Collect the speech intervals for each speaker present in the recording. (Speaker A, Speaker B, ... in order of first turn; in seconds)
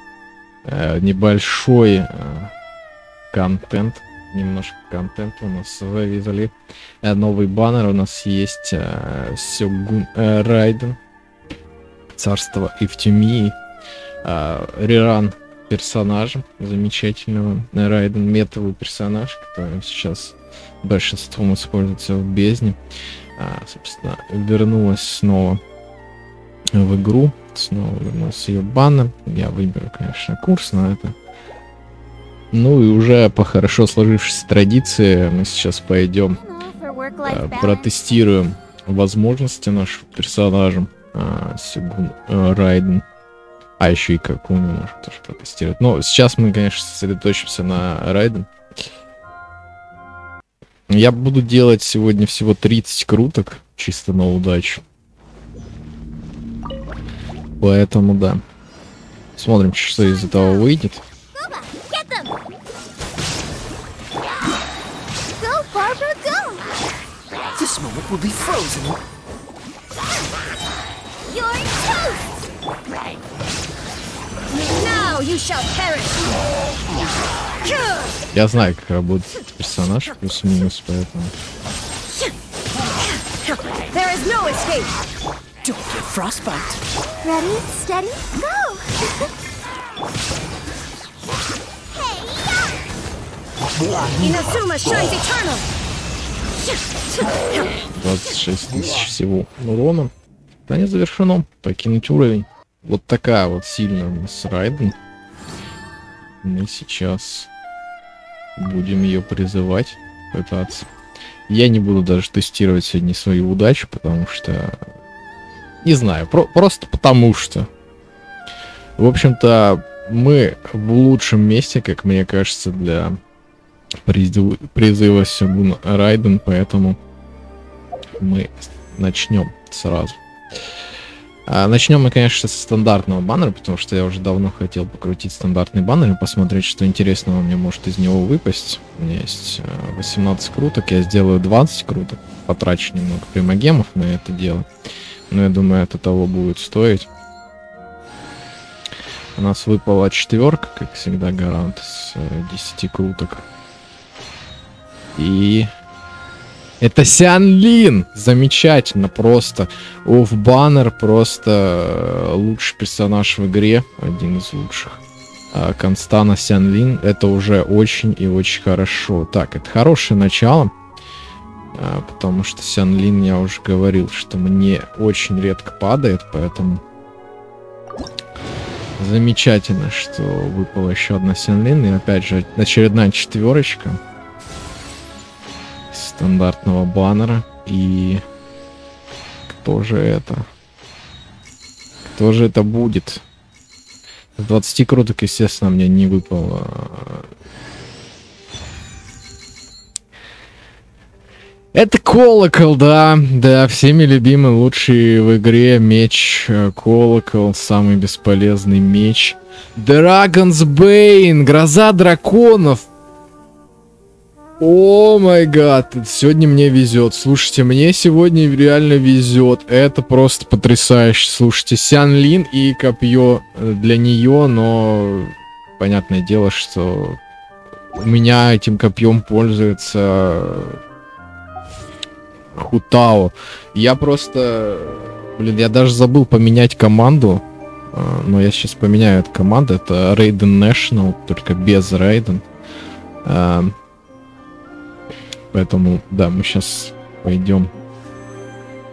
Speaker A: 0.7-2.5, 3.3-11.0, 12.2-13.6, 14.2-22.8, 23.4-25.6, 26.7-31.1, 32.5-36.4, 37.2-43.0, 43.8-48.5, 50.9-54.8, 57.6-58.4, 59.4-61.0, 78.3-81.3, 97.9-100.1, 100.7-105.0, 106.4-107.5, 108.6-110.9, 111.5-114.8, 115.8-117.7, 119.0-123.2, 124.0-127.0, 128.2-130.2, 131.5-144.7, 145.3-147.1, 149.4-153.5, 155.2-155.7, 156.8-170.7, 171.7-176.8, 179.0-184.0, 185.9-188.2, 189.5-190.5, 192.2-193.2, 194.4-197.3, 201.7-212.9, 214.6-227.2, 227.9-230.8, 232.6-242.4, 243.2-243.8, 245.5-247.7
Speaker B: 36.4-37.9, 60.1-60.7, 61.4-62.3, 65.4-66.7, 71.3-72.3, 74.5-76.4, 77.6-78.2, 83.2-84.9, 87.2-89.1, 94.0-95.7
Speaker C: 67.5-69.0, 85.8-86.8